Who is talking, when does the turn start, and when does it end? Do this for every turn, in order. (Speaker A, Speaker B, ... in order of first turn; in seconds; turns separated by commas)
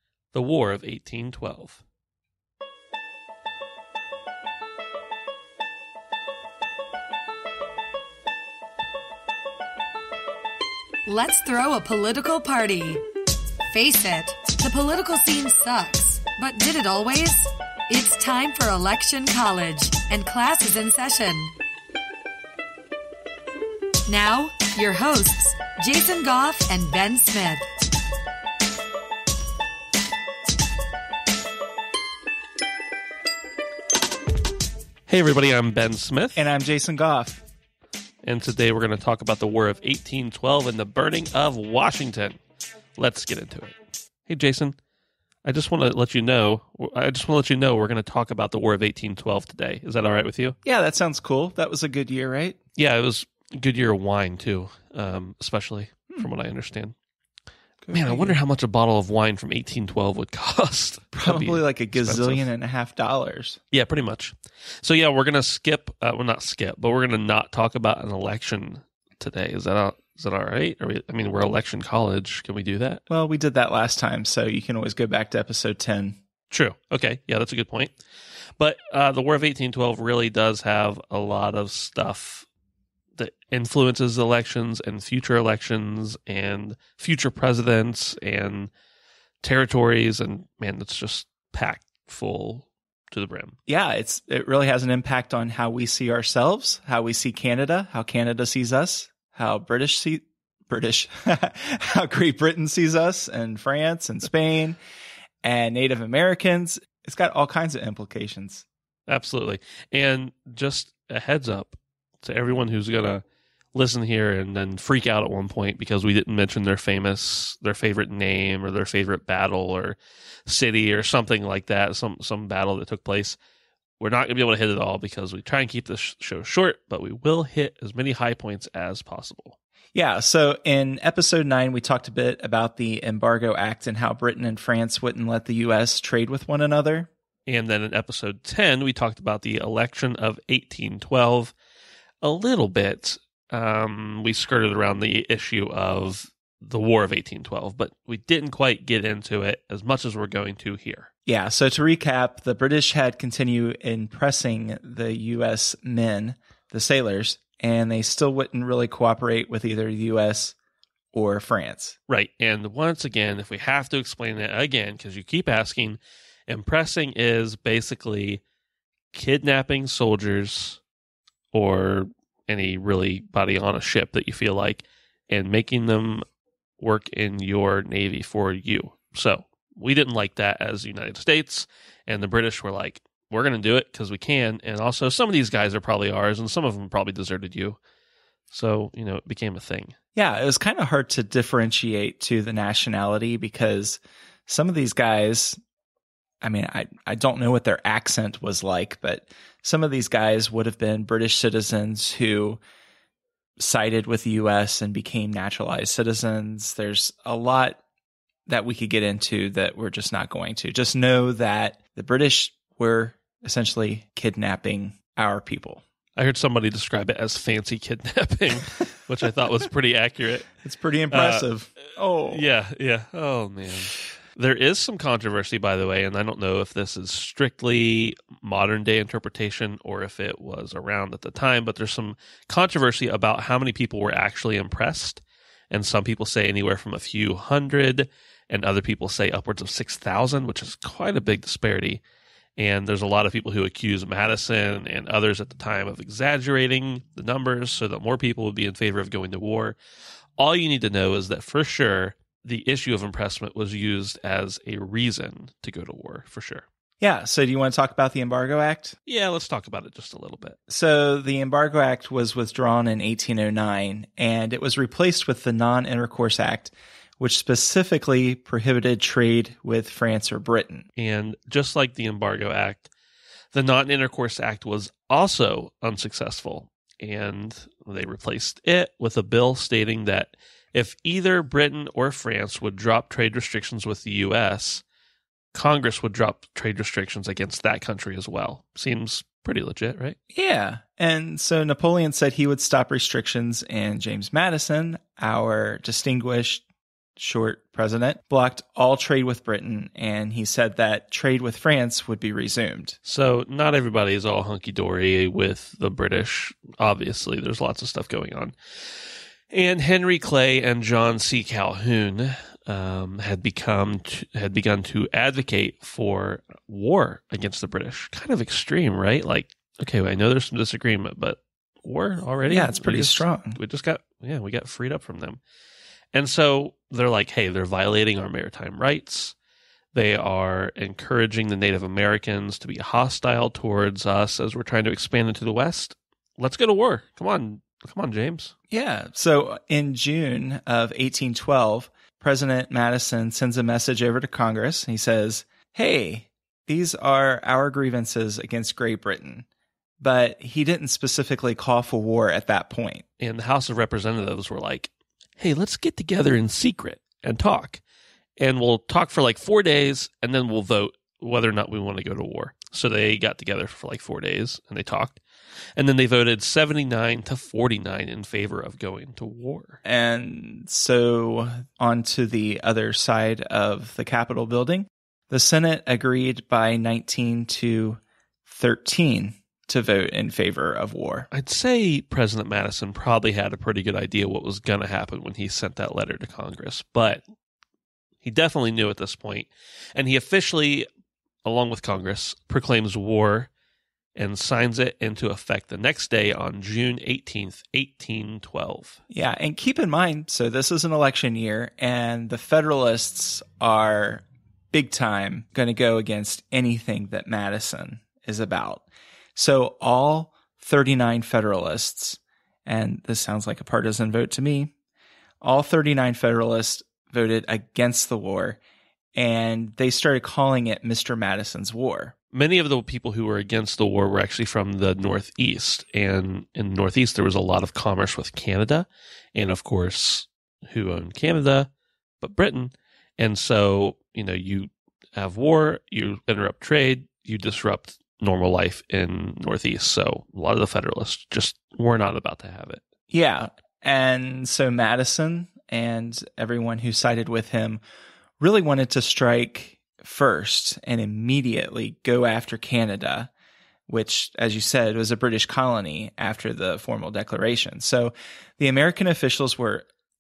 Speaker A: 0.3-1.8, Speaker B: 11.1-13.0, Speaker B: 13.7-21.5, Speaker B: 24.1-27.7, Speaker A: 35.1-36.4, Speaker C: 36.4-37.4, Speaker A: 38.2-42.4, Speaker A: 43.0-43.8, Speaker A: 44.3-44.8, Speaker A: 45.5-50.6, Speaker C: 50.6-52.6, Speaker A: 52.8-57.0, Speaker C: 57.8-58.4, Speaker A: 57.9-62.5, Speaker C: 61.1-63.6, Speaker A: 63.7-73.0, Speaker C: 73.1-76.2, Speaker A: 76.5-78.0, Speaker A: 78.6-82.5, Speaker A: 83.2-88.7, Speaker A: 89.4-93.6, Speaker C: 93.7-104.8, Speaker C: 105.4-108.7, Speaker A: 109.1-113.2, Speaker A: 113.8-123.4, Speaker A: 124.0-129.6, Speaker C: 129.9-137.1, Speaker A: 137.5-141.5, Speaker A: 142.2-151.1, Speaker C: 151.3-160.6, Speaker C: 161.1-162.0, Speaker A: 162.1-168.4, Speaker A: 169.1-170.8, Speaker A: 171.5-176.2, Speaker A: 176.8-187.8, Speaker A: 188.5-190.0, Speaker C: 190.2-195.6, Speaker C: 196.4-202.6, Speaker C: 203.6-207.8, Speaker C: 208.5-215.8, Speaker A: 216.2-220.5, Speaker C: 220.6-222.4, Speaker A: 221.1-221.5, Speaker A: 222.3-242.0, Speaker A: 242.6-249.8, Speaker A: 250.4-256.7, Speaker C: 257.0-259.0, Speaker A: 259.1-260.6, Speaker C: 260.7-270.9, Speaker A: 271.0-272.9, Speaker A: 273.5-284.8, Speaker A: 285.5-290.2, Speaker C: 290.3-296.6, Speaker C: 297.2-303.0, Speaker A: 303.1-308.5, Speaker A: 309.5-325.4, Speaker C: 322.5-323.6, Speaker A: 326.1-329.4, Speaker A: 329.9-338.5, Speaker C: 338.7-349.5, Speaker C: 350.0-353.0, Speaker A: 353.2-357.8, Speaker A: 358.4-365.2, Speaker A: 365.8-369.8, Speaker C: 369.9-381.3, Speaker A: 381.3-387.2, Speaker A: 388.2-390.9, Speaker A: 391.4-393.5, Speaker A: 394.2-399.0, Speaker C: 399.1-408.8, Speaker C: 409.4-414.7, Speaker C: 415.4-418.6, Speaker C: 419.1-422.1, Speaker A: 422.3-442.8, Speaker C: 443.1-447.8, Speaker C: 448.4-453.3, Speaker C: 453.9-459.9